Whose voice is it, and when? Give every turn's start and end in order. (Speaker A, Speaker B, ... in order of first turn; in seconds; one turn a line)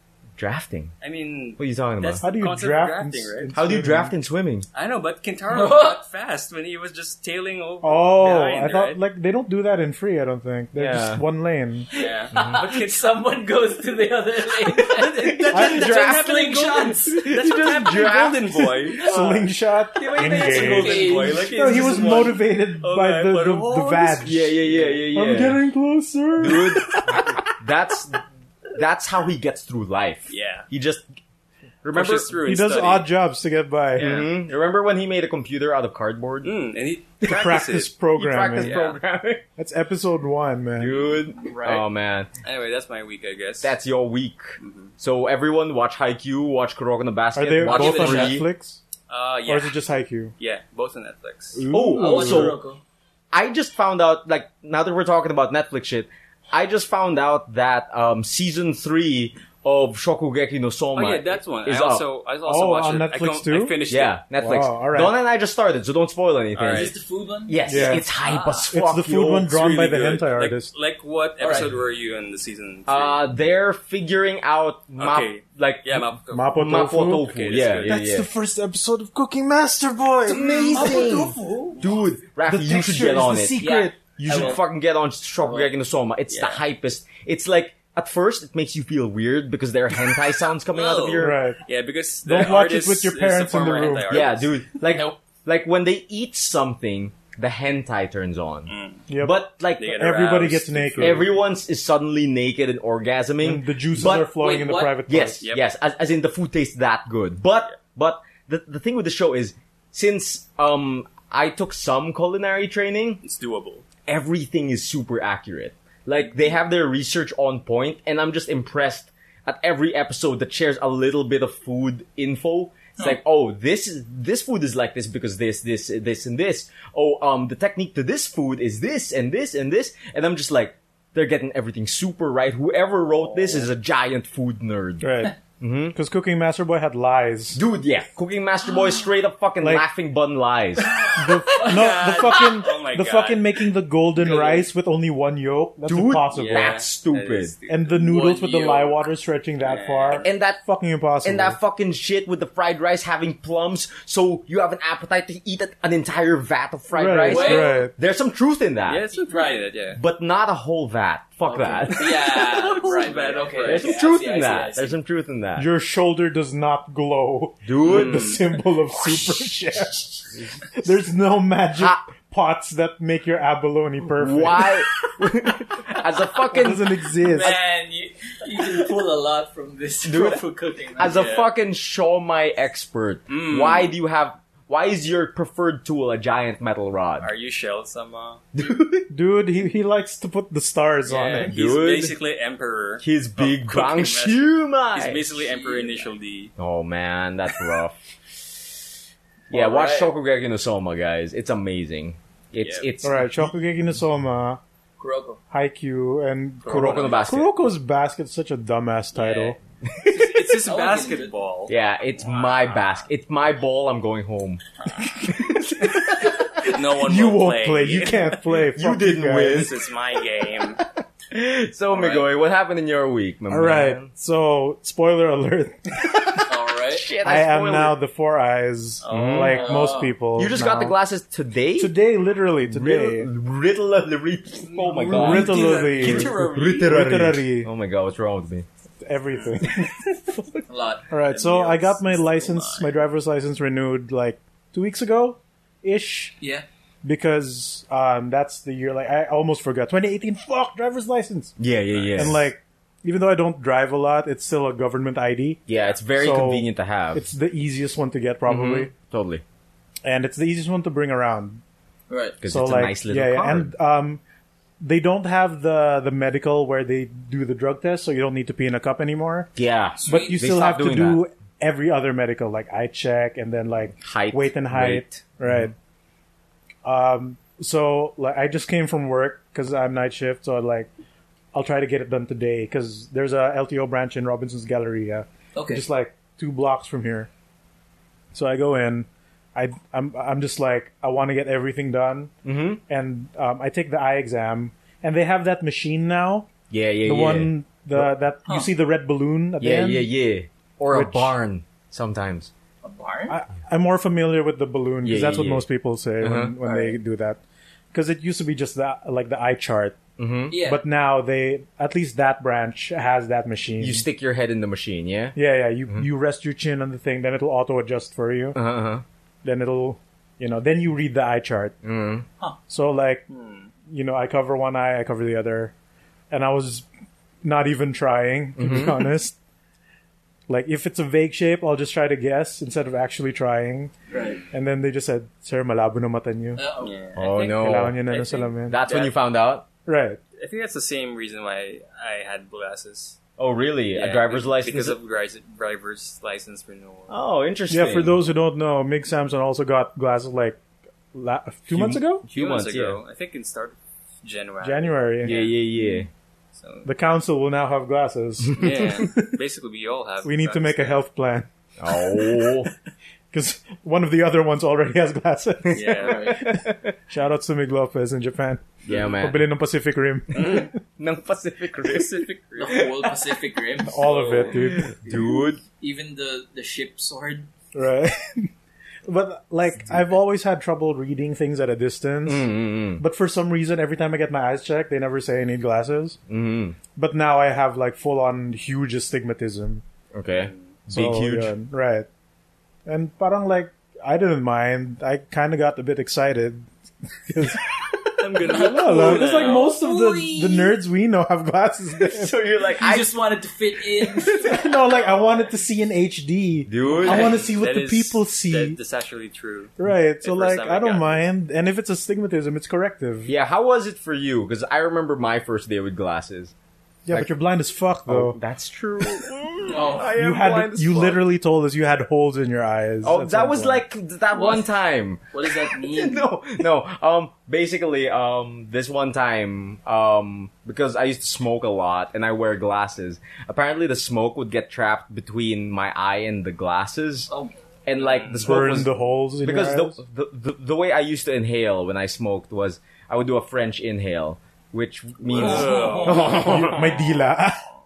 Speaker A: 0.4-0.9
Speaker B: 1.0-3.5
Speaker A: 1.6-2.2
Speaker C: 2.2-4.1
Speaker A: 3.5-4.7
Speaker B: 4.7-9.0
Speaker D: 5.5-6.0
Speaker C: 7.8-11.9
Speaker A: 10.8-11.2
Speaker D: 11.9-17.3
Speaker B: 11.9-12.9
Speaker A: 12.3-12.6
Speaker B: 14.7-24.4
Speaker A: 15.3-16.3
Speaker C: 15.5-15.9
Speaker A: 17.1-18.9
Speaker C: 19.0-27.5
Speaker D: 20.0-22.3
Speaker A: 24.2-25.6
Speaker A: 26.4-31.1
Speaker B: 30.3-30.7
Speaker A: 31.8-32.6
Speaker B: 31.9-33.1
Speaker C: 32.4-34.2
Speaker A: 34.0-36.5
Speaker B: 34.0-34.3
Speaker B: 36.4-38.0
Speaker C: 37.2-38.8
Speaker A: 38.2-39.4
Speaker B: 38.6-39.0
Speaker C: 39.6-41.1
Speaker A: 40.8-42.3
Speaker D: 41.4-41.9
Speaker B: 42.4-43.8
Speaker A: 43.6-48.5
Speaker B: 44.6-44.9
Speaker C: 47.4-48.8
Speaker B: 47.6-48.4
Speaker D: 48.0-48.2
Speaker B: 49.1-49.8
Speaker C: 49.5-50.3
Speaker B: 50.4-51.6
Speaker C: 51.5-52.6
Speaker A: 51.7-52.6
Speaker D: 51.9-52.8
Speaker A: 53.3-62.0
Speaker B: 61.0-64.2
Speaker C: 62.5-63.8
Speaker A: 63.9-66.9
Speaker C: 64.4-65.1
Speaker B: 66.5-66.9
Speaker D: 66.7-68.7
Speaker A: 67.5-69.6
Speaker C: 67.7-68.1
Speaker C: 68.7-70.7
Speaker B: 69.5-73.3
Speaker D: 71.4-71.7
Speaker A: 72.9-78.3
Speaker B: 75.0-78.0
Speaker C: 76.3-77.3
Speaker C: 77.8-81.1
Speaker A: 80.3-91.4
Speaker D: 80.3-81.8
Speaker C: 82.5-84.5
Speaker D: 83.6-84.6
Speaker D: 85.4-85.7
Speaker B: 86.3-86.6
Speaker B: 90.7-94.5
Speaker C: 91.2-91.6
Speaker C: 92.2-94.3
Speaker A: 94.1-100.0
Speaker D: 94.9-95.2
Speaker B: 98.7-99.0
Speaker C: 99.1-99.4
Speaker B: 99.8-101.3
Speaker C: 99.9-101.3
Speaker A: 101.0-104.4
Speaker C: 103.4-105.4
Speaker D: 104.4-105.0
Speaker A: 105.1-113.2
Speaker B: 113.2-113.8
Speaker A: 114.1-136.0
Speaker B: 133.2-133.7
Speaker C: 135.0-135.4
Speaker C: 135.9-137.6
Speaker A: 137.6-141.1
Speaker D: 140.8-141.8
Speaker C: 141.1-146.8
Speaker B: 141.6-143.6
Speaker B: 144.2-144.7
Speaker A: 145.8-147.5
Speaker B: 146.3-147.9
Speaker C: 147.7-151.6
Speaker D: 147.9-149.0
Speaker B: 149.6-150.3
Speaker A: 150.1-150.6
Speaker A: 151.2-159.0
Speaker C: 156.9-157.9
Speaker D: 157.2-157.8
Speaker B: 158.9-160.0
Speaker D: 159.2-159.7
Speaker A: 159.9-162.4
Speaker D: 161.4-164.9
Speaker B: 161.9-164.1
Speaker A: 163.6-165.7
Speaker C: 165.6-174.8
Speaker A: 167.7-168.4
Speaker B: 167.8-168.5
Speaker A: 171.8-172.0
Speaker A: 174.2-177.5
Speaker C: 176.5-177.6
Speaker D: 177.2-181.2
Speaker A: 180.1-180.4
Speaker A: 181.0-187.3
Speaker B: 181.0-181.5
Speaker B: 183.3-183.9
Speaker B: 187.2-188.4
Speaker A: 188.5-189.1
Speaker C: 189.1-191.5
Speaker B: 191.1-196.5
Speaker A: 191.4-192.2
Speaker A: 193.0-195.2
Speaker D: 195.4-196.1
Speaker A: 196.6-198.7
Speaker A: 199.5-203.5
Speaker D: 199.5-200.1
Speaker B: 202.6-202.9
Speaker C: 203.0-204.6
Speaker D: 205.0-205.4
Speaker C: 205.5-209.6
Speaker B: 206.7-207.3
Speaker A: 206.7-207.5
Speaker B: 209.1-213.1
Speaker A: 209.8-210.3
Speaker D: 210.7-211.3
Speaker A: 211.7-214.6
Speaker C: 215.2-219.7
Speaker A: 215.3-216.0
Speaker B: 216.6-218.4
Speaker A: 218.7-219.9
Speaker B: 219.5-220.8
Speaker A: 221.3-224.1
Speaker C: 223.5-226.5
Speaker D: 226.5-227.1
Speaker A: 226.9-228.0
Speaker C: 227.2-231.0
Speaker B: 229.0-229.9
Speaker A: 229.1-229.7
Speaker D: 229.4-230.2
Speaker A: 230.3-231.9
Speaker C: 231.8-233.3
Speaker A: 232.7-238.7
Speaker D: 234.7-235.8
Speaker B: 235.0-236.9
Speaker C: 235.1-237.7
Speaker C: 239.0-240.1
Speaker B: 239.3-239.6
Speaker D: 240.7-242.9
Speaker C: 241.1-246.3
Speaker D: 246.4-246.7
Speaker C: 247.0-251.6
Speaker A: 251.6-252.5
Speaker B: 251.9-252.4
Speaker C: 252.2-255.6
Speaker A: 255.7-257.2
Speaker C: 256.1-258.9
Speaker A: 258.5-259.4
Speaker C: 260.1-261.6
Speaker D: 262.1-262.4
Speaker A: 262.4-263.7
Speaker C: 262.5-264.2
Speaker C: 264.8-269.5
Speaker A: 269.6-271.2
Speaker D: 270.0-270.4
Speaker C: 270.1-275.7
Speaker A: 274.0-275.7
Speaker C: 276.8-280.9
Speaker C: 281.5-287.3
Speaker D: 285.6-285.8
Speaker C: 288.3-292.3
Speaker A: 292.4-292.8
Speaker C: 292.9-296.5
Speaker A: 296.7-298.1
Speaker C: 297.1-300.1
Speaker A: 299.6-302.5
Speaker C: 300.9-301.3
Speaker D: 302.8-303.4
Speaker C: 303.3-307.4
Speaker A: 305.0-305.7
Speaker A: 306.2-306.5
Speaker D: 306.6-307.0
Speaker C: 307.9-310.0
Speaker A: 310.2-310.6
Speaker D: 310.5-310.8
Speaker C: 310.6-314.1
Speaker A: 313.8-315.4
Speaker C: 315.4-318.6
Speaker A: 318.5-319.0
Speaker C: 319.4-321.8
Speaker A: 321.8-322.2
Speaker C: 322.7-323.2
Speaker B: 323.3-323.7
Speaker C: 323.9-325.7
Speaker C: 326.3-326.9
Speaker C: 327.4-329.4
Speaker A: 328.6-329.1
Speaker C: 330.5-333.9
Speaker D: 334.1-334.4
Speaker C: 334.5-336.6
Speaker D: 336.6-336.9
Speaker B: 336.8-339.1
Speaker A: 337.2-338.0
Speaker C: 337.6-338.8
Speaker A: 338.7-339.6
Speaker C: 339.9-340.2
Speaker B: 340.4-343.2
Speaker A: 343.4-345.0
Speaker B: 343.9-347.2
Speaker A: 347.1-348.2
Speaker C: 347.7-350.6
Speaker C: 351.1-352.2
Speaker A: 351.7-353.0
Speaker B: 352.3-355.6
Speaker C: 354.6-355.5
Speaker A: 355.2-356.1
Speaker B: 356.5-356.9
Speaker C: 356.9-359.3
Speaker A: 358.4-359.0
Speaker B: 358.6-361.0
Speaker C: 360.2-362.2
Speaker A: 361.8-362.7
Speaker C: 363.3-370.8
Speaker B: 365.7-366.4
Speaker A: 365.8-366.9
Speaker D: 366.0-366.4
Speaker A: 368.9-369.4
Speaker B: 370.3-370.7
Speaker A: 370.4-373.1
Speaker B: 371.8-372.9
Speaker D: 372.6-374.4
Speaker C: 373.9-375.1
Speaker B: 374.0-374.7
Speaker A: 374.5-375.6
Speaker D: 375.8-377.5
Speaker C: 377.8-378.5
Speaker C: 379.1-386.2
Speaker A: 382.2-383.0
Speaker A: 386.3-386.8
Speaker C: 387.0-389.8
Speaker A: 390.1-391.5
Speaker B: 390.3-390.7
Speaker C: 390.9-392.1
Speaker C: 392.9-396.7
Speaker C: 397.3-397.7
Speaker B: 398.2-399.8
Speaker C: 398.4-402.4
Speaker D: 398.4-400.8
Speaker A: 402.0-403.1
Speaker D: 402.8-404.7
Speaker C: 404.4-408.8
Speaker B: 404.9-405.5
Speaker A: 406.7-407.4
Speaker B: 407.0-411.2
Speaker D: 407.1-407.4
Speaker C: 409.8-413.3
Speaker A: 413.3-416.5
Speaker C: 417.1-418.4
Speaker A: 418.1-421.2
Speaker D: 419.7-420.1
Speaker C: 420.0-423.8
Speaker A: 423.0-437.3
Speaker D: 424.3-424.7
Speaker D: 425.3-426.3
Speaker A: 437.9-446.9
Speaker B: 437.9-438.9
Speaker C: 438.4-440.0
Speaker B: 445.3-447.3
Speaker D: 445.4-446.4
Speaker C: 446.3-447.6